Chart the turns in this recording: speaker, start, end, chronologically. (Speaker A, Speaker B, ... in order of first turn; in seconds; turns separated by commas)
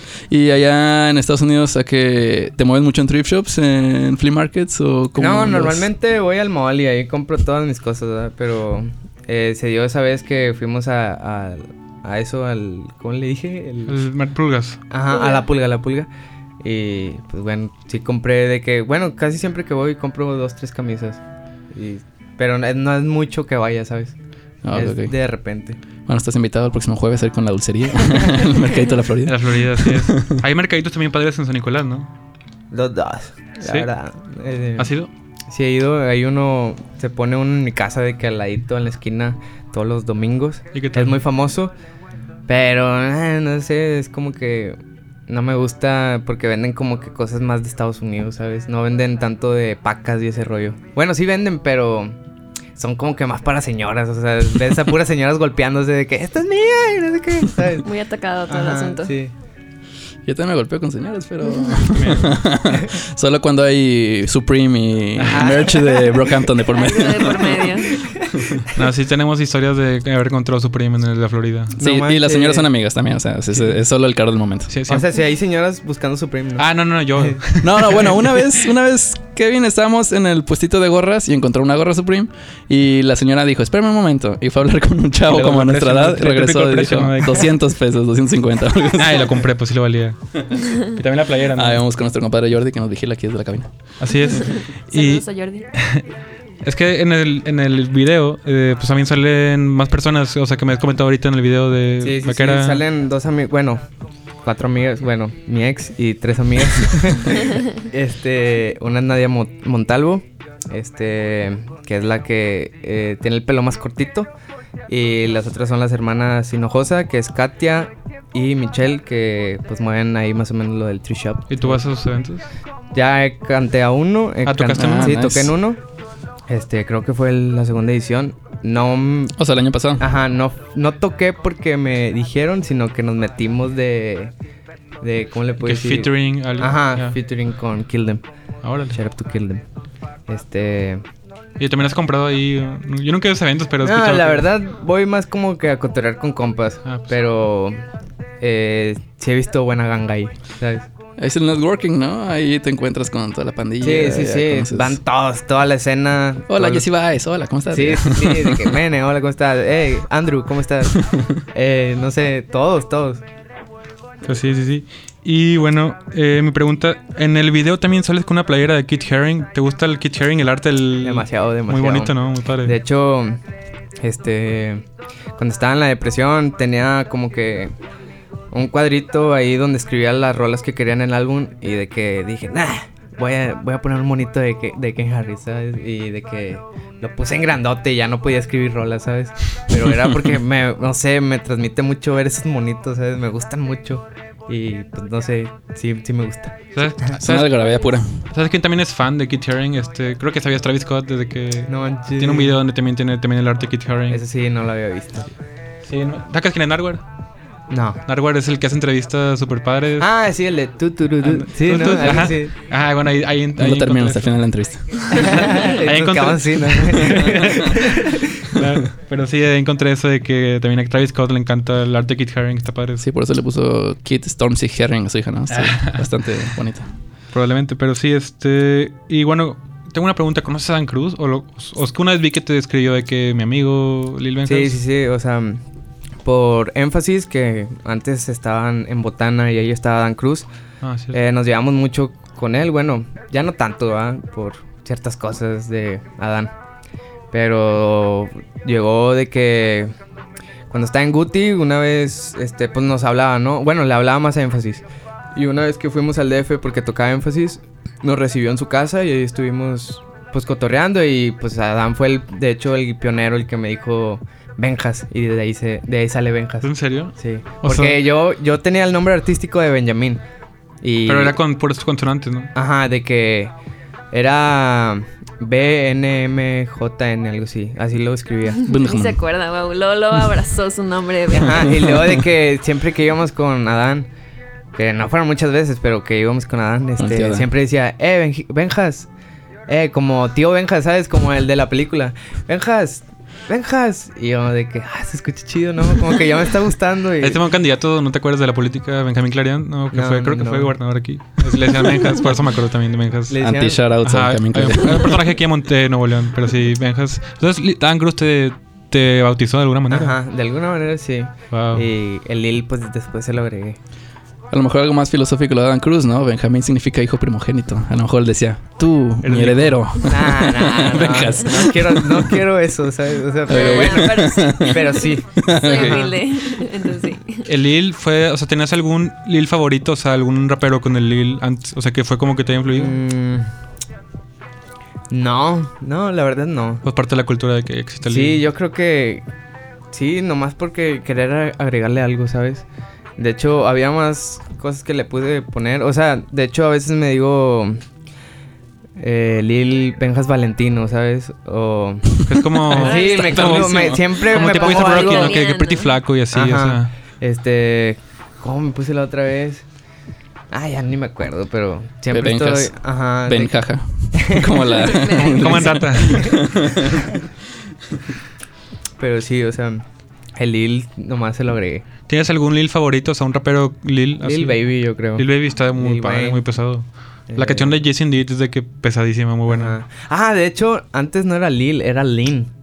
Speaker A: 0.3-5.9, Speaker B: 5.2-14.0, Speaker C: 13.9-14.8, Speaker B: 14.9-16.1, Speaker D: 15.1-15.4, Speaker B: 16.6-24.1, Speaker A: 24.6-25.1, Speaker B: 24.7-25.8, Speaker A: 26.1-30.4, Speaker C: 29.2-32.1, Speaker B: 32.7-34.9, Speaker C: 34.8-35.1, Speaker B: 35.5-41.7, Speaker C: 40.7-41.2, Speaker B: 42.5-44.8, Speaker B: 45.3-52.1, Speaker B: 52.8-57.9, Speaker D: 57.8-59.1, Speaker B: 58.5-59.3, Speaker A: 60.2-67.9, Speaker C: 61.9-62.4, Speaker B: 65.3-66.2, Speaker D: 66.7-68.1, Speaker B: 68.0-68.5, Speaker C: 68.6-71.8, Speaker B: 71.8-72.7, Speaker A: 71.8-74.7, Speaker C: 74.7-75.1, Speaker B: 74.9-77.4, Speaker C: 76.6-78.2, Speaker A: 77.6-89.4, Speaker C: 85.3-87.5, Speaker C: 88.9-91.8, Speaker A: 91.5-93.7, Speaker C: 94.0-96.0, Speaker D: 94.3-95.7, Speaker C: 96.6-102.8, Speaker B: 102.0-103.8, Speaker B: 104.4-114.3, Speaker B: 114.9-121.8, Speaker C: 121.5-122.5, Speaker B: 122.9-125.8, Speaker C: 124.5-125.5, Speaker A: 124.8-125.5, Speaker B: 126.5-129.3, Speaker A: 129.3-130.0, Speaker B: 130.0-134.3, Speaker B: 135.0-138.2, Speaker C: 135.6-137.2, Speaker C: 138.6-139.0, Speaker B: 138.9-139.6, Speaker B: 140.3-141.0, Speaker C: 141.6-144.5, Speaker B: 143.8-147.8, Speaker B: 148.4-150.9, Speaker A: 151.2-155.0, Speaker B: 153.8-156.9, Speaker A: 156.5-158.8, Speaker B: 157.7-163.2, Speaker C: 164.2-172.7, Speaker B: 171.0-173.4, Speaker B: 174.0-174.8, Speaker B: 175.4-177.7, Speaker B: 178.5-196.6, Speaker C: 196.7-204.2, Speaker A: 197.1-198.2, Speaker B: 201.7-202.6, Speaker B: 204.1-205.3, Speaker C: 205.8-207.0, Speaker B: 207.7-208.0, Speaker C: 208.1-210.1, Speaker B: 210.0-212.5, Speaker C: 211.2-214.4, Speaker A: 213.6-215.4, Speaker C: 215.0-223.0, Speaker B: 215.1-218.6, Speaker A: 223.0-226.9, Speaker C: 225.5-226.0, Speaker C: 227.3-234.8, Speaker B: 234.4-235.6, Speaker B: 236.2-240.5, Speaker C: 240.8-241.2, Speaker B: 241.1-246.5, Speaker B: 247.3-249.9, Speaker B: 250.7-254.8, Speaker B: 255.3-270.2, Speaker C: 266.6-268.0, Speaker B: 270.8-271.4, Speaker C: 271.1-272.5, Speaker B: 272.5-273.5, Speaker B: 274.1-278.6, Speaker D: 278.6-282.0, Speaker A: 278.6-279.2, Speaker B: 281.3-284.1, Speaker A: 281.6-282.1, Speaker B: 284.7-289.1, Speaker A: 287.0-287.5, Speaker B: 289.7-297.4, Speaker C: 297.2-303.4, Speaker B: 299.9-300.7, Speaker B: 303.3-303.8, Speaker A: 303.4-305.2, Speaker C: 304.0-310.1, Speaker B: 309.9-313.8, Speaker C: 311.5-311.8, Speaker A: 314.5-322.4, Speaker C: 319.2-320.0, Speaker B: 320.0-326.1, Speaker A: 323.5-326.0, Speaker D: 323.5-327.4, Speaker C: 327.4-332.9, Speaker B: 332.7-333.5, Speaker B: 335.1-336.8, Speaker C: 336.8-338.4, Speaker B: 338.0-339.2, Speaker B: 339.9-342.6, Speaker B: 343.2-347.8, Speaker B: 349.0-355.4, Speaker C: 352.2-356.9, Speaker D: 352.7-355.9, Speaker B: 356.3-359.6, Speaker B: 360.5-363.6, Speaker A: 362.1-367.1, Speaker B: 364.1-364.8, Speaker D: 364.6-365.9, Speaker C: 365.2-366.4, Speaker B: 366.2-367.1, Speaker B: 369.0-369.8, Speaker B: 370.3-371.8, Speaker C: 372.1-379.8, Speaker B: 374.2-376.4, Speaker B: 377.3-377.7, Speaker B: 379.5-382.5